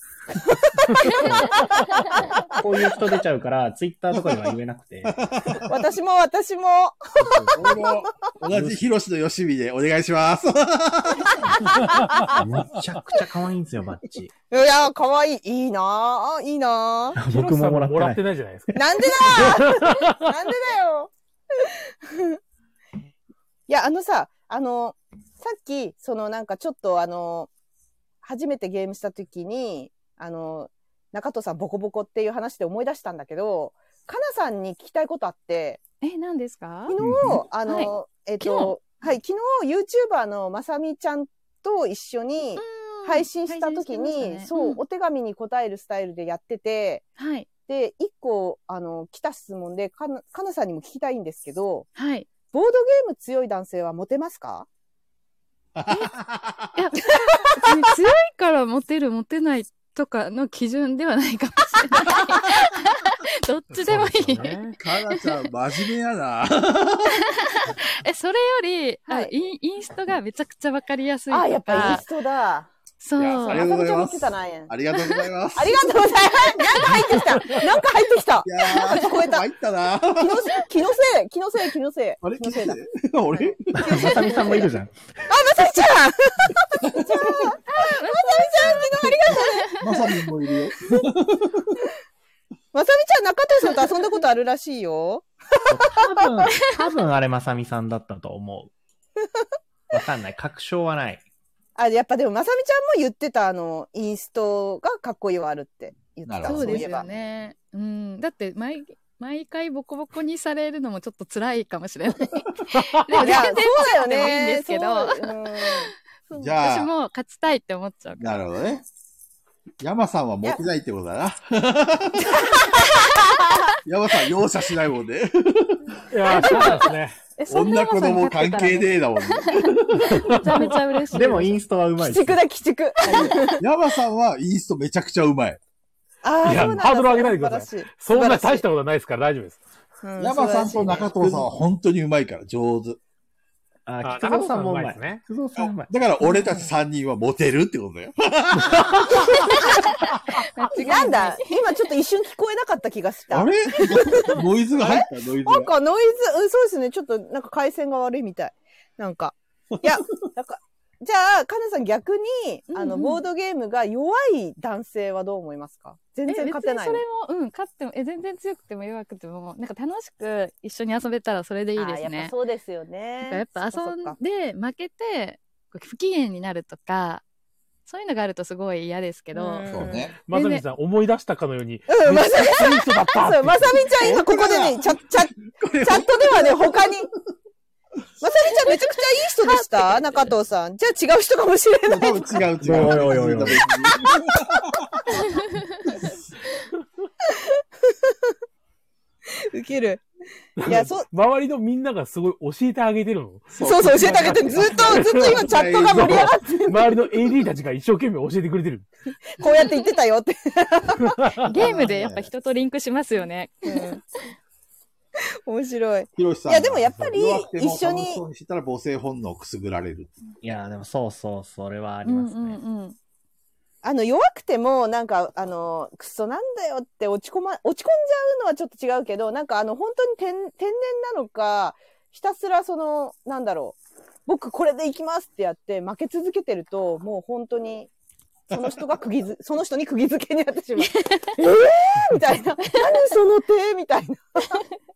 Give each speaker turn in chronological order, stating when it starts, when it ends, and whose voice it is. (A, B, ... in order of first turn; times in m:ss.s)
0:00.3-0:02.6 A
0:01.0-0:05.2 B
0:05.0-0:05.7 C
0:05.7-0:07.9 A
0:07.2-0:07.8 B
0:07.6-0:11.7 C
0:08.5-0:08.8 B
0:12.3-0:14.3 B
0:14.5-0:17.2 A
0:17.2-0:18.2 B
0:17.2-0:20.3 D
0:18.7-0:22.4 A
0:23.7-0:27.5 A
0:28.2-0:35.8 A
0:36.0-0:37.0 E
0:36.9-0:47.0 A
0:37.0-0:37.4 C
0:37.7-0:38.8 E
0:42.6-0:44.8 E
0:47.2-0:47.5 E
0:47.7-0:51.9 A
0:52.0-0:52.3 E
0:52.4-0:54.7 A
0:55.8-0:56.7 C
0:56.8-1:04.5 E
1:03.9-1:04.8 D
1:04.8-1:07.2 C
1:07.3-1:12.0 E
1:11.3-1:12.7 A
1:11.7-1:12.0 C
1:13.0-1:13.7 E
1:13.2-1:16.1 C
1:13.5-1:14.7 A
1:15.6-1:19.3 A
1:18.4-1:20.5 C
1:20.2-1:22.8 A
1:22.2-1:23.9 C
1:23.3-1:24.6 A
1:23.7-1:24.9 B
1:25.3-1:29.8 A
1:28.0-1:28.4 E
1:29.3-1:29.6 E
1:29.3-1:31.8 C
1:32.7-1:36.2 A
1:35.7-1:38.7 B
1:39.9-1:41.2 B
1:41.8-1:47.0 A
1:46.3-1:46.8 C
1:46.4-1:58.4 E
1:52.7-1:53.2 D
1:53.1-1:55.9 A
1:56.3-1:56.9 C
1:58.2-1:58.8 C
1:59.8-2:02.4 C
2:02.4-2:03.7 A
2:03.8-2:06.0 C
2:06.1-2:07.2 D
2:06.3-2:11.6 E
2:06.3-2:06.9 A
2:07.5-2:10.4 C
2:10.1-2:10.5 D
2:11.1-2:12.4 B
2:12.0-2:13.6 A
2:13.1-2:13.5 E
2:13.6-2:15.6 C
2:16.2-2:18.6 A
2:16.4-2:19.6 D
2:20.0-2:21.5 A
2:20.2-2:23.0 C
2:23.9-2:25.9 B
2:24.0-2:25.2 D
2:25.6-2:30.2 C
2:26.2-2:26.7 A
2:28.6-2:29.2 D
2:29.5-2:31.8 E
2:30.8-2:47.0 A
2:33.3-2:35.7 C
2:39.7-2:40.3 C
2:42.7-2:43.2 E
2:46.3-2:52.3 E
2:51.8-2:54.2 A
2:53.2-2:57.2 E
2:57.9-2:59.7 E
2:59.3-3:00.1 A
2:59.7-3:00.2 C
3:00.3-3:03.8 D
3:00.3-3:00.6 E
3:01.9-3:05.3 A
3:03.9-3:06.9 C
3:05.8-3:07.1 A
3:08.2-3:12.3 A
3:09.4-3:10.0 E
3:11.9-3:15.0 C
3:12.6-3:13.6 B
3:17.3-3:18.3 A
3:19.3-3:20.0 A
3:20.6-3:28.9 D
3:20.6-3:21.1 A
3:23.5-3:26.4 C
3:23.6-3:26.8 A
3:29.3-3:31.9 A
3:29.4-3:29.8 E
3:31.2-3:31.5 D
3:31.5-3:34.0 E
3:31.5-3:32.3 C
3:33.6-3:34.0 A
3:35.5-3:38.2 A
3:36.2-3:40.1 C
3:40.4-3:42.6 B
3:42.0-3:43.0 E
3:43.8-3:57.9 A
3:58.5-4:04.6 A
4:00.8-4:01.3 E